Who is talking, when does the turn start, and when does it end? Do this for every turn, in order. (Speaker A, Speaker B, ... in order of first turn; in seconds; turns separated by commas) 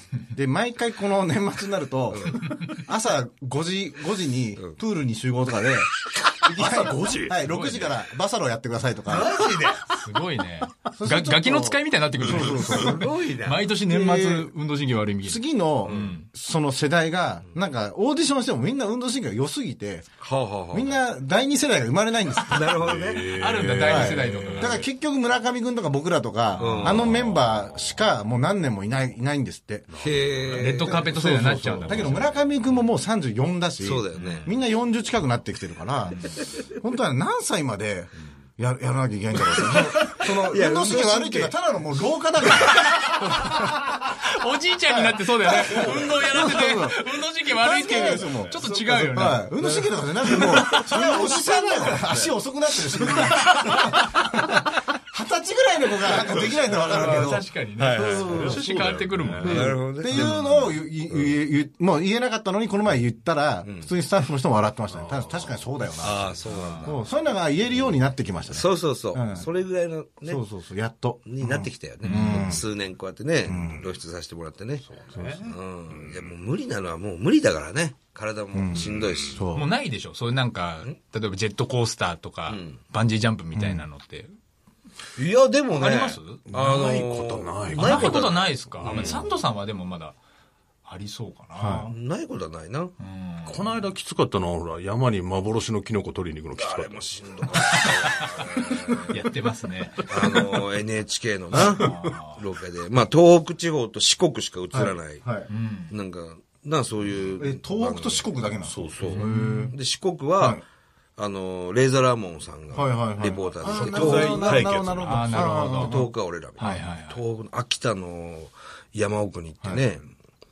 Speaker A: 0.3-9.4, Speaker B: 2.1-2.4, Speaker C: 6.4-7.4, Speaker D: 7.4-8.0, Speaker B: 9.1-9.8, Speaker D: 9.9-16.3, Speaker A: 10.9-13.1, Speaker C: 12.2-12.7, Speaker B: 12.7-13.6, Speaker A: 13.9-14.5, Speaker A: 15.2-20.1, Speaker B: 15.8-16.1, Speaker B: 20.2-21.0, Speaker A: 20.7-22.9, Speaker B: 22.5-23.3, Speaker C: 22.8-24.9, Speaker D: 23.4-24.8, Speaker A: 23.8-30.0, Speaker B: 26.6-27.2, Speaker C: 26.6-28.0, Speaker C: 29.9-32.6, Speaker B: 30.0-31.0, Speaker D: 30.5-32.3, Speaker A: 30.8-43.8, Speaker B: 33.8-34.5, Speaker D: 34.1-34.5, Speaker D: 36.1-36.4, Speaker B: 39.6-41.5, Speaker D: 42.7-49.5, Speaker A: 44.9-58.8, Speaker C: 48.2-49.1, Speaker B: 49.6-51.9, Speaker C: 51.8-52.3, Speaker D: 53.6-54.0, Speaker C: 56.7-57.1, Speaker D: 56.8-60.7, Speaker C: 57.8-59.7, Speaker A: 59.4-69.5, Speaker B: 59.4-60.4, Speaker B: 63.6-63.9, Speaker C: 64.9-65.6, Speaker B: 66.0-67.0, Speaker D: 66.4-67.0, Speaker B: 68.5-70.4, Speaker A: 70.2-72.6, Speaker B: 71.2-74.8, Speaker D: 72.0-72.6, Speaker A: 73.4-73.9, Speaker C: 74.8-76.3, Speaker A: 75.1-75.5, Speaker B: 75.4-79.4, Speaker A: 78.5-79.7, Speaker D: 79.5-84.3, Speaker B: 82.5-82.8, Speaker A: 83.5-83.8, Speaker B: 85.2-89.3, Speaker D: 85.7-86.4, Speaker C: 86.5-88.3, Speaker D: 87.7-90.2, Speaker C: 88.8-89.3, Speaker D: 90.8-91.9, Speaker A: 91.5-91.9, Speaker B: 91.9-92.9, Speaker D: 93.0-93.7, Speaker C: 93.5-97.1, Speaker B: 96.5-99.1, Speaker D: 97.5-98.2, Speaker D: 99.1-100.1, Speaker B: 100.1-105.2, Speaker D: 101.5-102.4, Speaker C: 101.6-102.1, Speaker A: 104.7-105.5, Speaker D: 105.5-105.9, Speaker B: 105.9-108.3, Speaker A: 107.4-109.8, Speaker C: 108.6-109.1, Speaker B: 108.9-110.6, Speaker D: 109.1-109.7, Speaker B: 111.2-114.7, Speaker A: 112.7-116.9, Speaker C: 113.6-115.6, Speaker D: 115.0-116.0, Speaker B: 115.7-120.1, Speaker D: 116.6-117.2